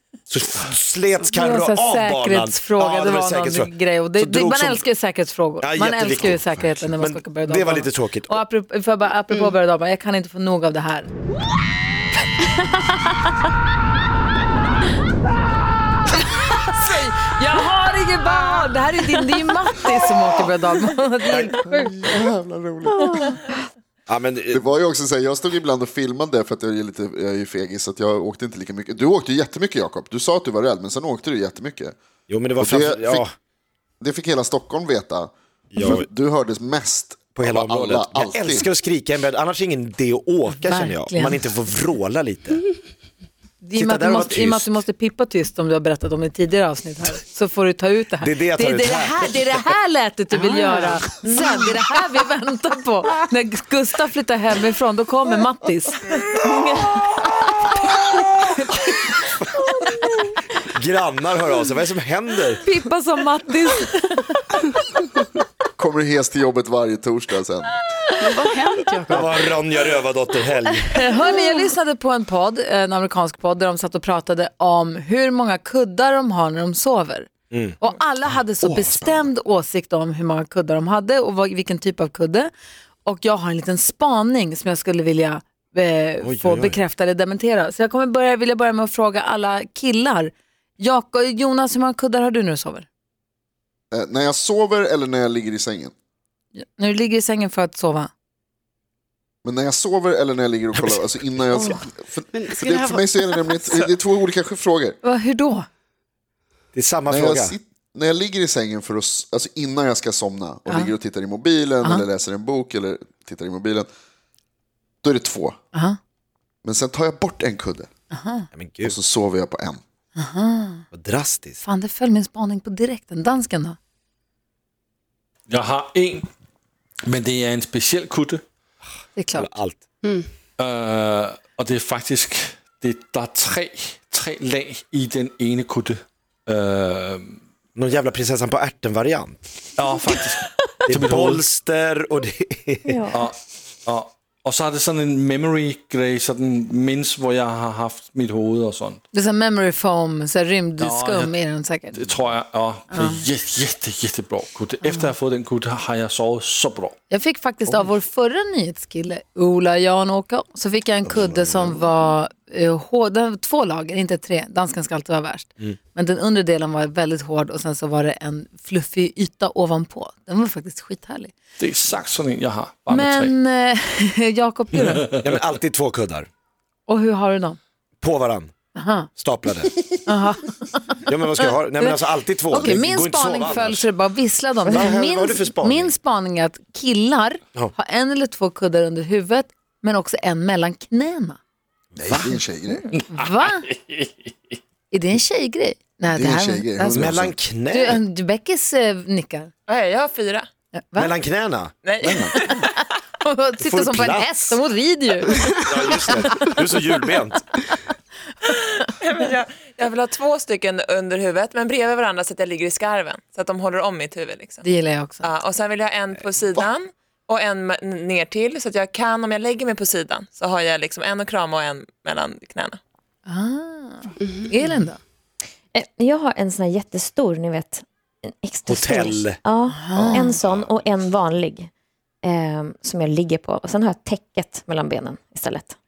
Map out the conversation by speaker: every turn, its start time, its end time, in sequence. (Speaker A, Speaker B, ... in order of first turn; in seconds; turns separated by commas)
Speaker A: 0.3-4.8, Speaker B: 1.3-11.1, Speaker A: 5.6-8.4, Speaker B: 12.4-13.1, Speaker B: 16.5-21.9, Speaker A: 21.3-21.5, Speaker C: 21.7-23.1, Speaker D: 22.9-23.3, Speaker A: 24.1-24.6, Speaker C: 24.5-32.0, Speaker A: 32.3-33.3, Speaker C: 32.6-33.2, Speaker C: 34.0-38.7, Speaker A: 35.7-36.1, Speaker A: 37.4-42.6, Speaker B: 40.6-41.4, Speaker B: 43.6-59.0, Speaker A: 43.8-44.7, Speaker A: 48.2-49.4, Speaker E: 50.3-51.0, Speaker A: 60.6-62.6, Speaker B: 62.6-64.4, Speaker C: 65.8-67.7, Speaker E: 68.2-69.5, Speaker A: 69.1-70.9, Speaker B: 70.9-77.3, Speaker A: 77.5-77.8, Speaker B: 77.8-82.5, Speaker A: 78.6-79.3, Speaker B: 83.0-92.9, Speaker A: 86.2-86.8, Speaker C: 93.9-95.9, Speaker B: 96.5-98.1, Speaker C: 99.4-105.0, Speaker A: 100.8-101.0, Speaker E: 102.3-103.7, Speaker B: 105.0-105.7, Speaker A: 106.7-107.6, Speaker C: 107.1-113.9, Speaker C: 115.0-115.6, Speaker B: 115.7-116.0, Speaker C: 116.6-117.9, Speaker B: 118.1-118.5, Speaker A: 118.5-119.0, Speaker C: 118.8-119.8, Speaker B: 120.2-120.8, Speaker A: 120.9-121.6, Speaker B: 121.6-123.8, Speaker F: 125.5-126.3, Speaker F: 127.1-128.4, Speaker B: 129.2-129.5, Speaker A: 129.3-129.8, Speaker E: 130.0-130.3, Speaker F: 130.6-137.4, Speaker A: 137.8-139.4, Speaker F: 139.8-141.4, Speaker A: 140.9-143.0, Speaker D: 142.9-143.2, Speaker F: 143.1-149.0, Speaker B: 149.1-152.2, Speaker F: 150.8-151.4, Speaker F: 151.9-156.9, Speaker B: 152.9-153.2, Speaker B: 154.8-155.1, Speaker B: 157.1-171.3, Speaker A: 161.1-161.8, Speaker F: 171.6-173.3, Speaker B: 172.9-175.1, Speaker A: 175.2-176.3, Speaker B: 176.9-177.6, Speaker A: 178.0-178.5, Speaker B: 178.8-179.1, Speaker A: 179.2-179.9, Speaker B: 180.1-181.1, Speaker A: 181.1-183.8, Speaker B: 182.5-191.4, Speaker A: 184.7-185.9, Speaker C: 192.0-192.9, Speaker B: 193.1-193.7, Speaker F: 193.5-194.3, Speaker B: 194.9-197.1, Speaker C: 196.1-197.3, Speaker A: 196.9-198.0, Speaker B: 197.7-199.5, Speaker G: 199.7-200.5, Speaker B: 200.8-201.2, Speaker A: 201.0-202.2, Speaker G: 201.8-202.7, Speaker F: 202.1-202.3, Speaker B: 202.2-202.7, Speaker B: 203.2-206.2, Speaker A: 203.6-204.6, Speaker A: 205.6-207.4, Speaker G: 208.5-214.7, Speaker B: 214.6-215.2, Speaker G: 215.2-222.8, Speaker B: 223.3-225.0, Speaker E: 224.2-224.5, Speaker D: 225.7-231.7, Speaker A: 228.7-229.4, Speaker B: 229.7-230.4, Speaker A: 229.9-230.7, Speaker D: 232.2-235.8